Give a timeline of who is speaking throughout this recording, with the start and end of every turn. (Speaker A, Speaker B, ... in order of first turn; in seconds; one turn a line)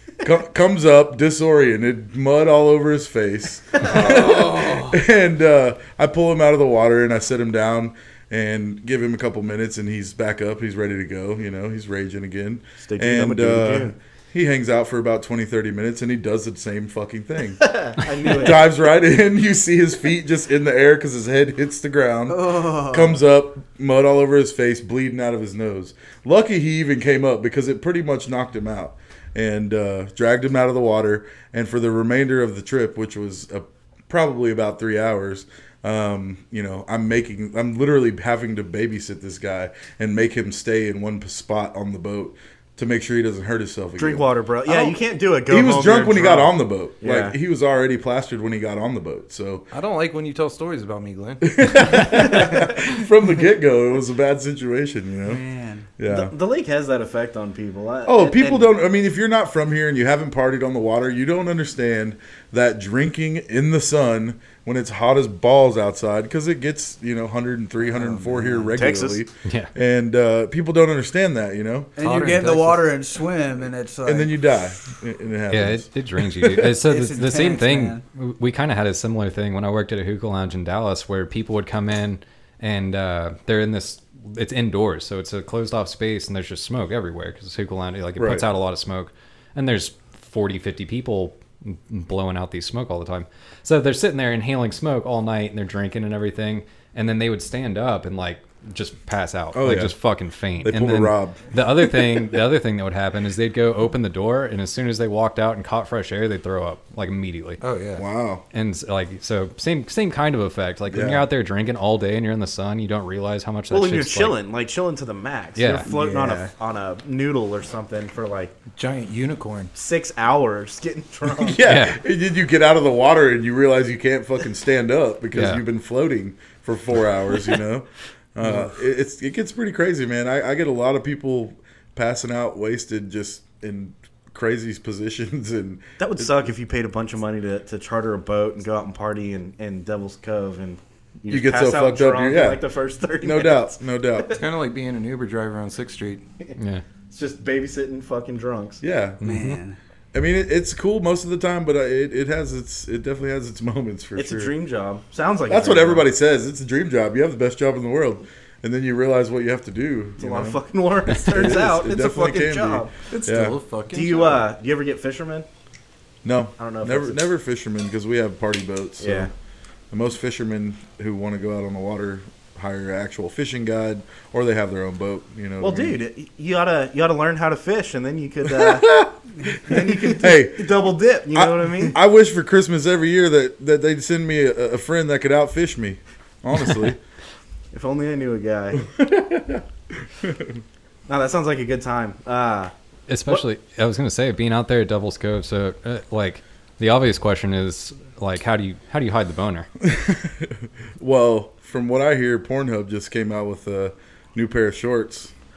Speaker A: 0.2-17.6
Speaker B: 12.8-13.9
Speaker B: 17.6-18.7
Speaker A: 18.2-44.3
Speaker C: 22.3-23.2
Speaker B: 44.0-47.4
Speaker A: 45.5-49.7
Speaker D: 49.7-51.6
Speaker A: 51.4-55.4
Speaker C: 55.2-55.9
Speaker A: 56.0-56.3
Speaker B: 56.1-58.7
Speaker A: 58.0-71.9
Speaker C: 67.8-68.8
Speaker B: 68.7-69.2
Speaker E: 69.4-69.7
Speaker C: 72.0-74.3
Speaker D: 72.0-72.9
Speaker A: 74.0-76.8
Speaker E: 75.5-107.6
Speaker C: 76.8-78.0
Speaker A: 88.2-88.5
Speaker A: 99.5-99.9
Speaker A: 100.6-101.4
Speaker D: 107.6-108.0
Speaker A: 108.0-108.4
Speaker E: 108.5-114.4
Speaker A: 110.9-111.2
Speaker B: 113.7-118.5
Speaker E: 115.6-115.9
Speaker C: 115.8-116.5
Speaker D: 118.7-119.7
Speaker B: 119.7-121.6
Speaker A: 121.4-136.3
Speaker E: 121.6-122.0
Speaker E: 125.3-125.6
Speaker B: 136.0-144.4
Speaker A: 141.3-142.6
Speaker A: 143.2-144.3
Speaker D: 144.3-146.2
Speaker E: 146.6-146.8
Speaker B: 147.1-148.8
Speaker A: 148.8-149.2
Speaker E: 149.2-149.6
Speaker C: 149.2-149.8
Speaker A: 150.1-154.5
Speaker B: 154.2-156.1
Speaker A: 155.5-163.6
Speaker B: 160.2-162.9
Speaker D: 163.1-164.5
Speaker B: 163.9-165.5
Speaker A: 166.2-169.3
Speaker B: 166.6-167.2
Speaker B: 169.0-169.3
Speaker A: 169.9-175.9
Speaker B: 175.6-179.1
Speaker A: 178.5-187.0
Speaker B: 179.6-182.0
Speaker B: 187.7-188.8
Speaker A: 188.8-189.6
Speaker A: 190.2-190.6
Speaker B: 191.1-192.7
Speaker E: 193.1-199.7
Speaker A: 199.8-205.3